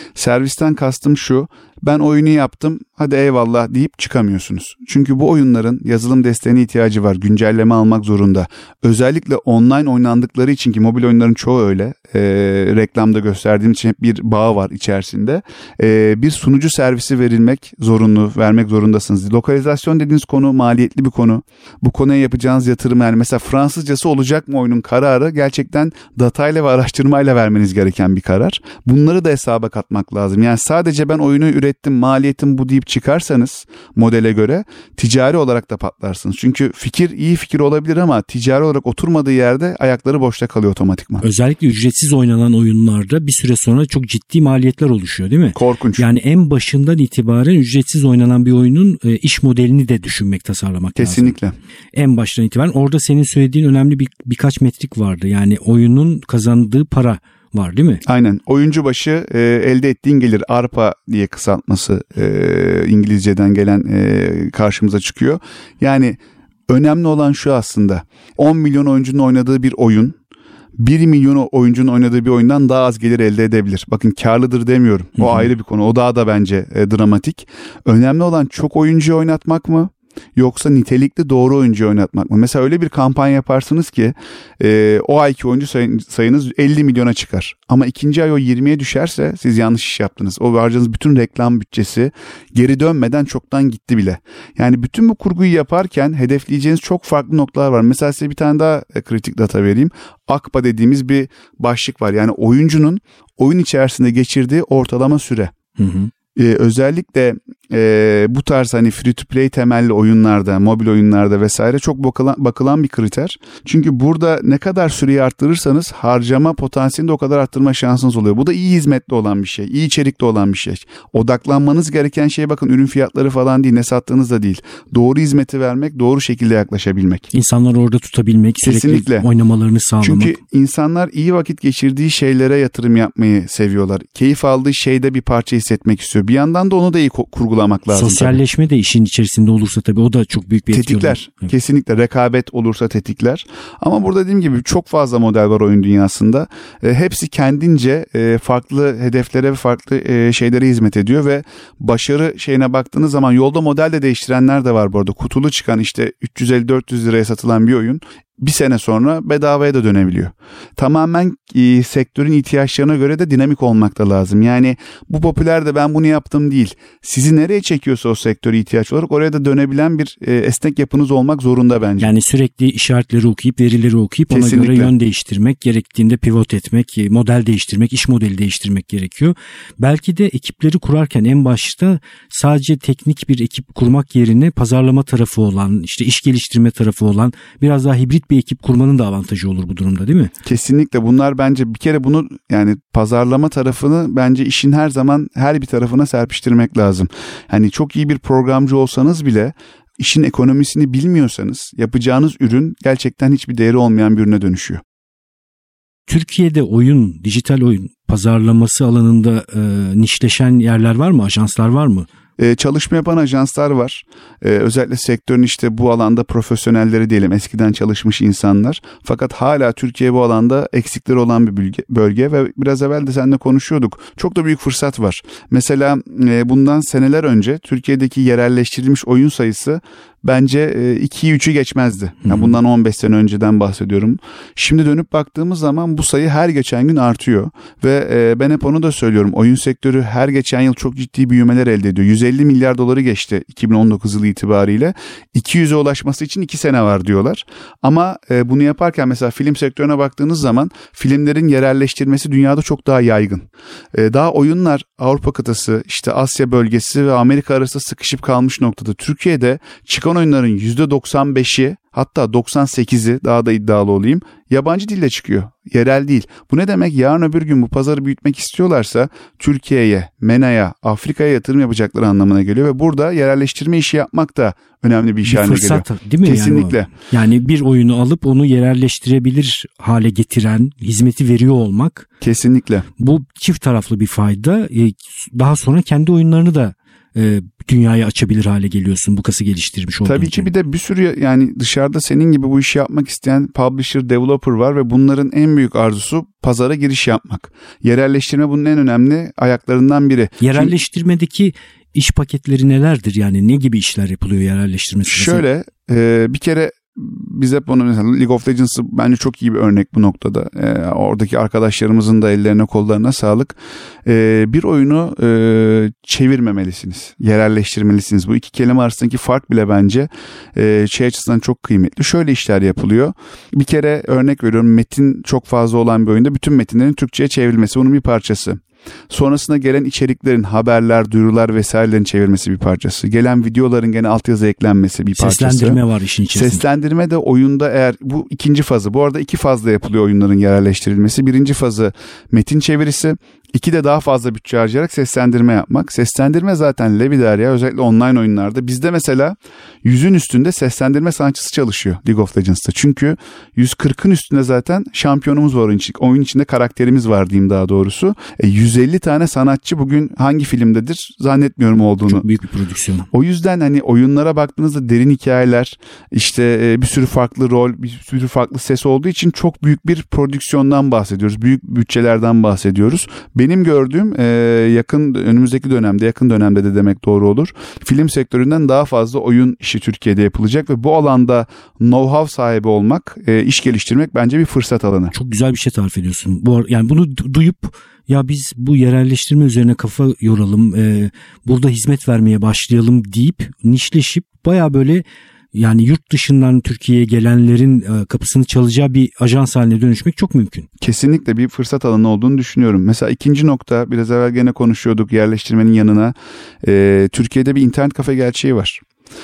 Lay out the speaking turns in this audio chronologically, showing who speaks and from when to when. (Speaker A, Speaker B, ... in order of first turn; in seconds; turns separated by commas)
Speaker A: 0.2-41.2, Speaker B: 41.2-51.4, Speaker A: 45.5-46.1, Speaker A: 51.0-51.5, Speaker B: 52.0-58.0, Speaker A: 58.1-66.2, Speaker A: 66.7-70.2, Speaker A: 70.8-105.5, Speaker B: 75.2-75.5, Speaker B: 105.8-106.1, Speaker A: 106.4-127.3, Speaker B: 127.3-130.4, Speaker A: 128.6-129.3, Speaker A: 130.0-138.4, Speaker B: 137.9-141.5, Speaker A: 140.7-172.1, Speaker B: 172.0-190.3, Speaker A: 174.3-174.9, Speaker A: 190.4-204.8, Speaker B: 206.1-212.1, Speaker A: 212.4-276.9, Speaker B: 232.2-232.6, Speaker B: 275.3-282.1, Speaker A: 282.2-282.9, Speaker B: 283.0-290.5, Speaker A: 290.1-300.8, Speaker B: 300.4-305.4, Speaker A: 305.1-335.8, Speaker B: 335.1-336.6, Speaker A: 336.3-362.3, Speaker B: 362.1-363.1, Speaker A: 363.1-385.1, Speaker B: 385.1-400.7, Speaker A: 400.8-408.8